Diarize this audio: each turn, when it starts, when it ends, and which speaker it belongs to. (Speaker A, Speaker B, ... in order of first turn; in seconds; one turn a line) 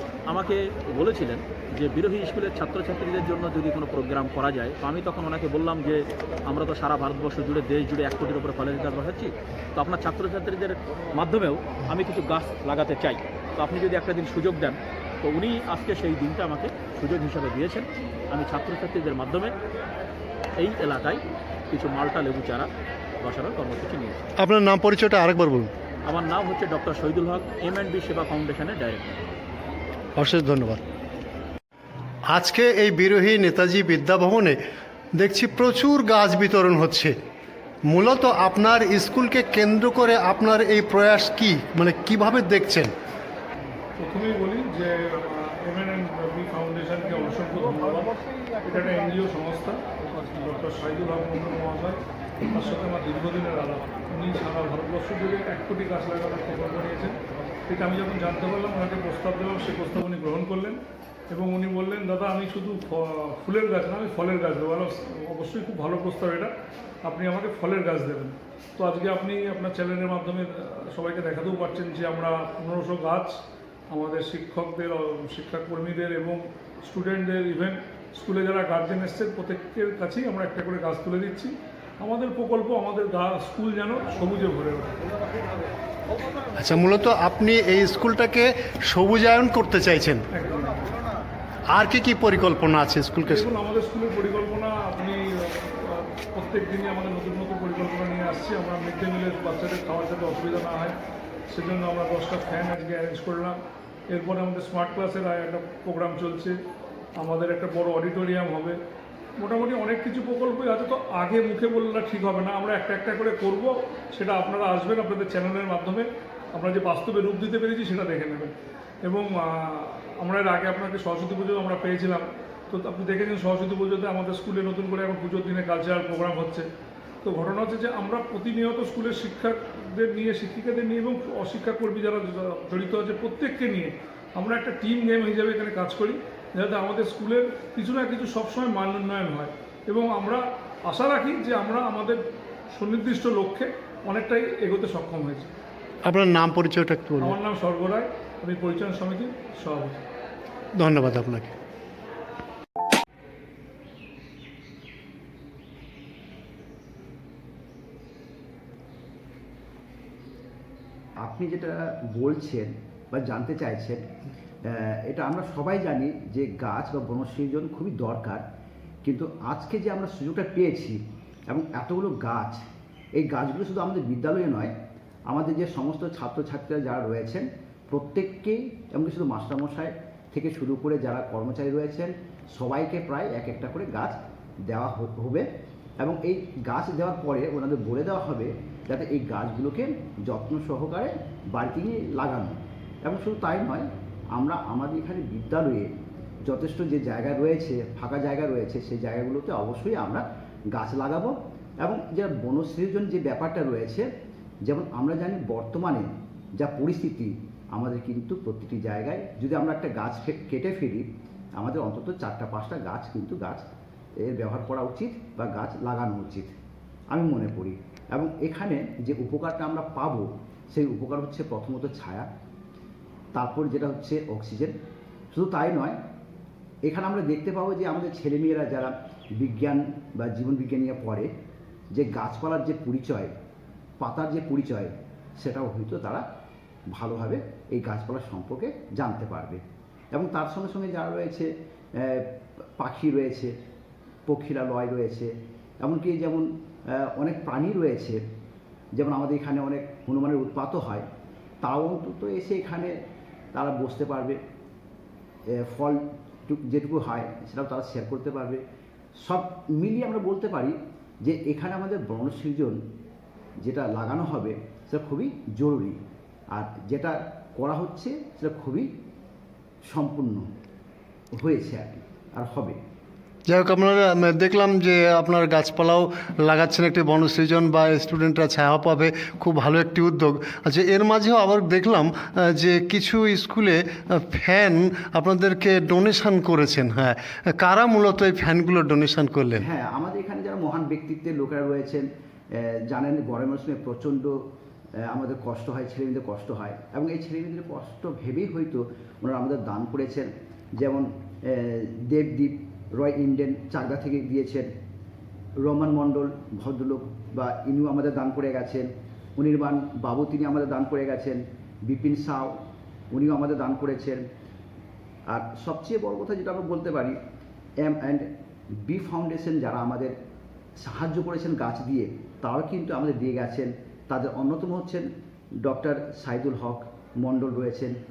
Speaker A: 0.3-19.5
Speaker A: 20.6-22.7
Speaker A: 23.2-24.2
Speaker B: 24.4-25.7
Speaker A: 26.0-29.3
Speaker B: 30.2-30.8
Speaker B: 32.3-34.6
Speaker B: 35.1-37.1
Speaker B: 37.9-42.9
Speaker C: 44.0-52.0
Speaker C: 52.5-60.8
Speaker C: 61.3-66.5
Speaker C: 67.0-73.4
Speaker C: 73.9-85.0
Speaker B: 86.6-90.2
Speaker C: 90.3-91.0
Speaker B: 91.7-93.5
Speaker C: 93.2-100.9
Speaker C: 101.5-103.6
Speaker C: 104.1-106.5
Speaker C: 107.2-108.8
Speaker C: 109.4-118.5
Speaker C: 119.0-126.7
Speaker C: 127.2-142.2
Speaker C: 142.7-145.5
Speaker B: 146.0-147.4
Speaker C: 147.2-150.0
Speaker B: 150.8-151.5
Speaker D: 161.2-164.0
Speaker D: 164.7-168.4
Speaker D: 169.0-171.0
Speaker D: 171.5-172.6
Speaker D: 173.2-174.7
Speaker D: 175.3-184.2
Speaker D: 184.7-185.4
Speaker D: 186.0-195.9
Speaker D: 196.5-204.1
Speaker D: 204.7-211.1
Speaker D: 211.6-213.6
Speaker D: 214.3-216.5
Speaker D: 217.1-222.3
Speaker D: 223.3-224.7
Speaker D: 225.3-226.0
Speaker D: 226.9-231.3
Speaker D: 231.9-233.3
Speaker D: 234.0-236.2
Speaker D: 236.9-239.6
Speaker D: 240.1-243.5
Speaker D: 244.3-248.2
Speaker D: 248.9-251.0
Speaker D: 251.6-252.9
Speaker D: 253.5-254.4
Speaker D: 255.6-258.6
Speaker D: 259.2-262.8
Speaker D: 263.6-266.0
Speaker D: 266.5-268.9
Speaker D: 269.9-270.4
Speaker D: 271.4-272.8
Speaker B: 273.5-289.6
Speaker D: 289.6-294.3
Speaker D: 295.1-304.7
Speaker D: 305.6-312.6
Speaker D: 313.1-314.2
Speaker D: 315.3-317.2
Speaker D: 317.8-318.3
Speaker D: 318.8-320.1
Speaker D: 320.8-325.1
Speaker D: 325.6-327.9